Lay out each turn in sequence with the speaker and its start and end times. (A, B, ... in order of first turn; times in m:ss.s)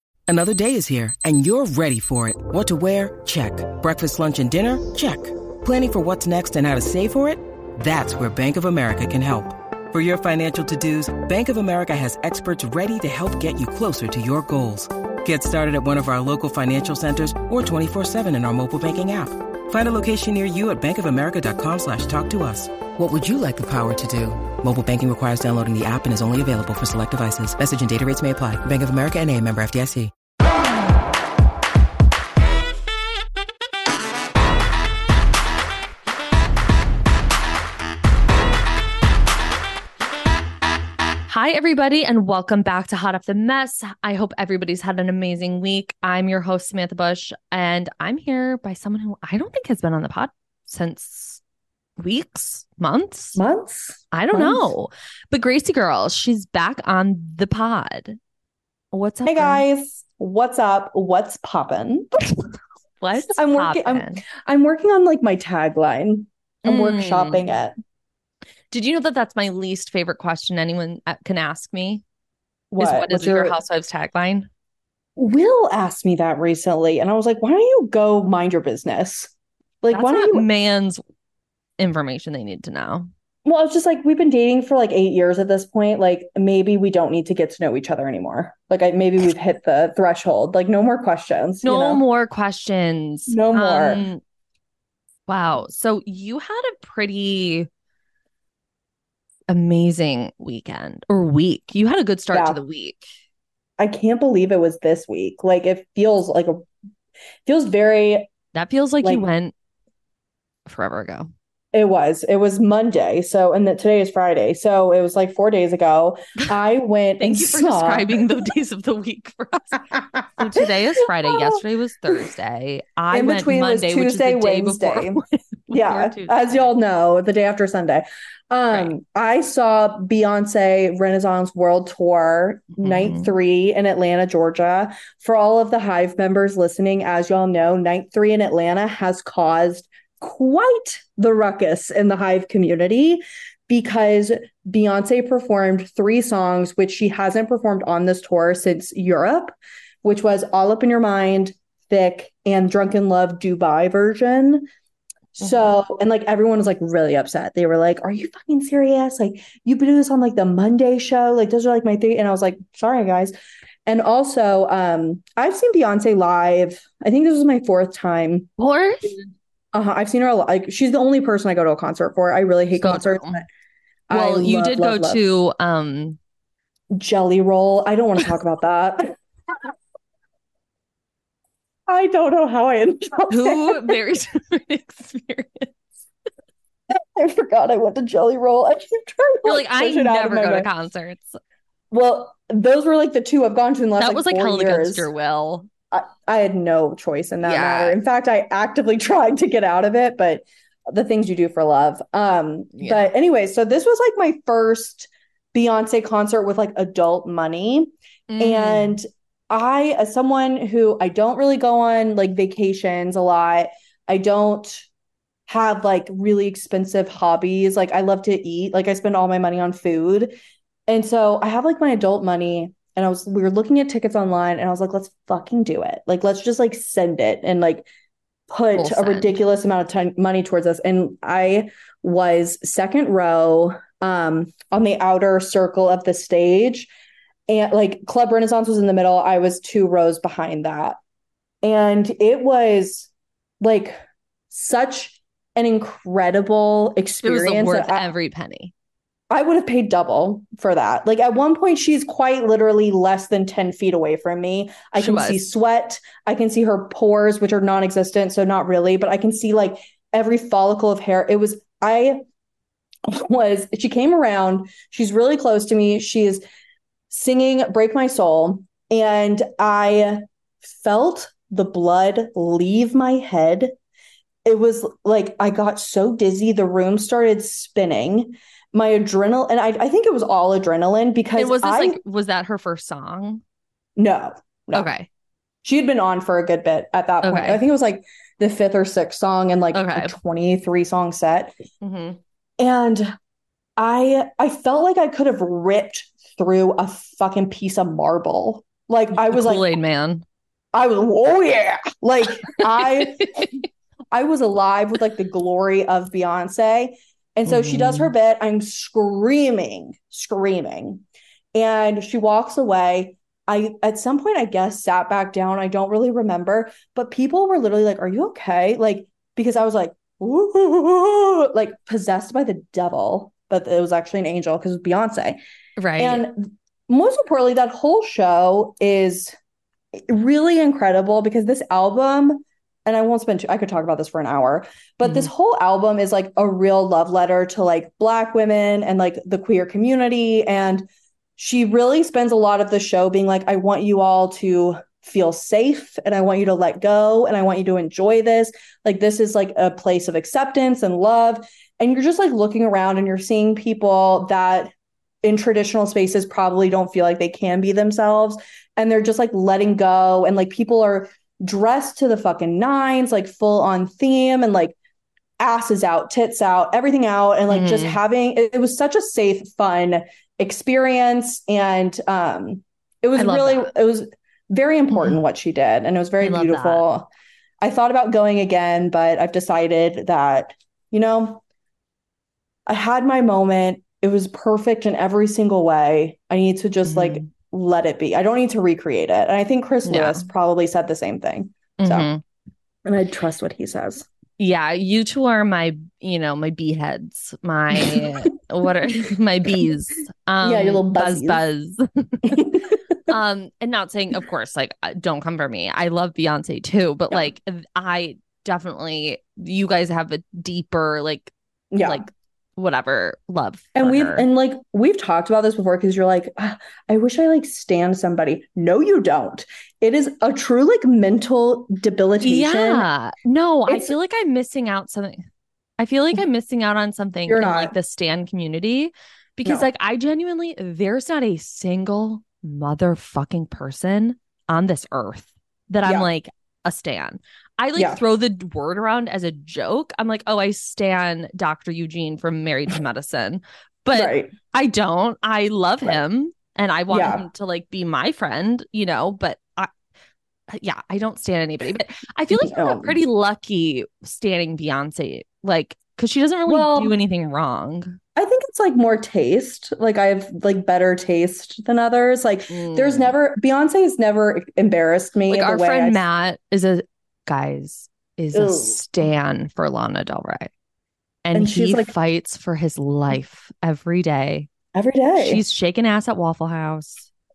0:00.3-0:30.1 A
0:41.3-0:51.4 B
0:52.0-0:53.4 B
0:53.4-0:54.7 C
0:54.1-0:58.2 B
0:58.9-0:59.6 B
0:59.3-1:02.2 C
1:03.0-1:04.2 B
1:03.3-1:07.8 C
1:06.6-1:07.4 B
1:08.7-1:12.0 B
1:12.7-1:13.6 C
1:12.8-1:14.5 B
1:15.2-1:20.5 C
1:19.9-1:21.0 B
1:21.8-1:23.1 B
1:23.4-1:32.0 C
1:31.6-1:34.2 B
1:33.3-1:34.0 C
1:35.3-1:37.7 B
1:39.5-1:43.1 B
1:42.3-1:42.6 C
1:43.8-1:46.7 C
1:47.5-1:48.3 C
1:48.6-1:49.5 B
1:50.7-1:51.3 B
1:51.7-1:58.2 C
1:57.2-2:06.7 B
2:01.2-2:01.6 C
2:03.1-2:34.7 C
2:12.8-2:13.3 B
2:35.4-2:43.4 C
2:35.4-2:35.7 B
2:43.9-2:48.5 C
2:48.6-2:49.3 B
2:49.7-2:53.5 C
2:52.8-2:53.4 B
2:54.1-2:55.2 C
2:54.1-2:56.2 B
2:56.9-2:59.2 C
3:01.9-3:04.0 C
3:03.3-3:05.7 B
3:06.9-3:10.7 C
3:09.4-3:11.4 B
3:11.9-3:15.1 C
3:14.0-3:15.7 B
3:15.9-3:34.9 C
3:17.4-3:18.0 B
3:22.8-3:23.1 B
3:28.3-3:29.0 B
3:35.5-3:40.3 C
3:40.9-3:47.9 C
3:48.5-3:56.9 C
3:48.8-3:49.4 B
3:57.5-4:01.0 C
4:01.6-4:03.1 C
4:03.6-4:08.1 C
4:07.2-4:08.7 B
4:09.3-4:22.2 C
4:15.0-4:15.4 B
4:23.1-4:26.4 C
4:27.1-4:33.7 C
4:34.4-4:42.0 C
4:41.4-4:43.4 B
4:44.0-4:44.9 C
4:44.7-4:45.1 B
4:45.6-4:51.6 C
4:47.2-4:47.6 B
4:49.7-4:50.2 B
4:51.8-4:52.2 B
4:52.6-4:53.1 C
4:53.8-4:59.7 C
4:59.2-5:00.2 B
5:00.7-5:11.0 C
5:03.2-5:03.5 B
5:07.5-5:08.1 B
5:11.6-5:25.4 C
5:25.8-5:26.2 B
5:26.0-5:29.4 C
5:30.0-5:54.7 C
5:35.0-5:35.3 B
5:55.2-6:04.8 C
6:05.4-6:17.1 C
6:07.5-6:08.0 B
6:13.2-6:13.7 B
6:14.9-6:15.2 B
6:16.2-6:16.8 B
6:17.6-6:21.4 C
6:22.7-6:32.1 C
6:26.8-6:27.3 B
6:29.9-6:30.3 B
6:31.8-6:32.2 B
6:32.8-6:34.1 C
6:34.4-6:42.5 B
6:37.7-6:38.1 C
6:40.4-6:41.4 C
6:42.3-6:42.8 C
6:43.1-6:54.3 B
6:51.7-6:52.1 C
6:53.8-7:02.9 C
7:02.2-7:05.3 B
7:05.8-7:29.7 B
7:07.3-7:07.8 C
7:23.9-7:24.3 C
7:26.9-7:27.3 C
7:30.5-7:38.0 B
7:32.3-7:33.0 C
7:36.5-7:37.0 C
7:38.2-7:46.0 C
7:42.5-7:43.2 B
7:45.3-7:50.5 B
7:48.3-7:48.8 C
7:51.2-7:54.5 B
7:51.3-7:51.9 C
7:54.7-7:55.4 C
7:55.2-7:57.1 B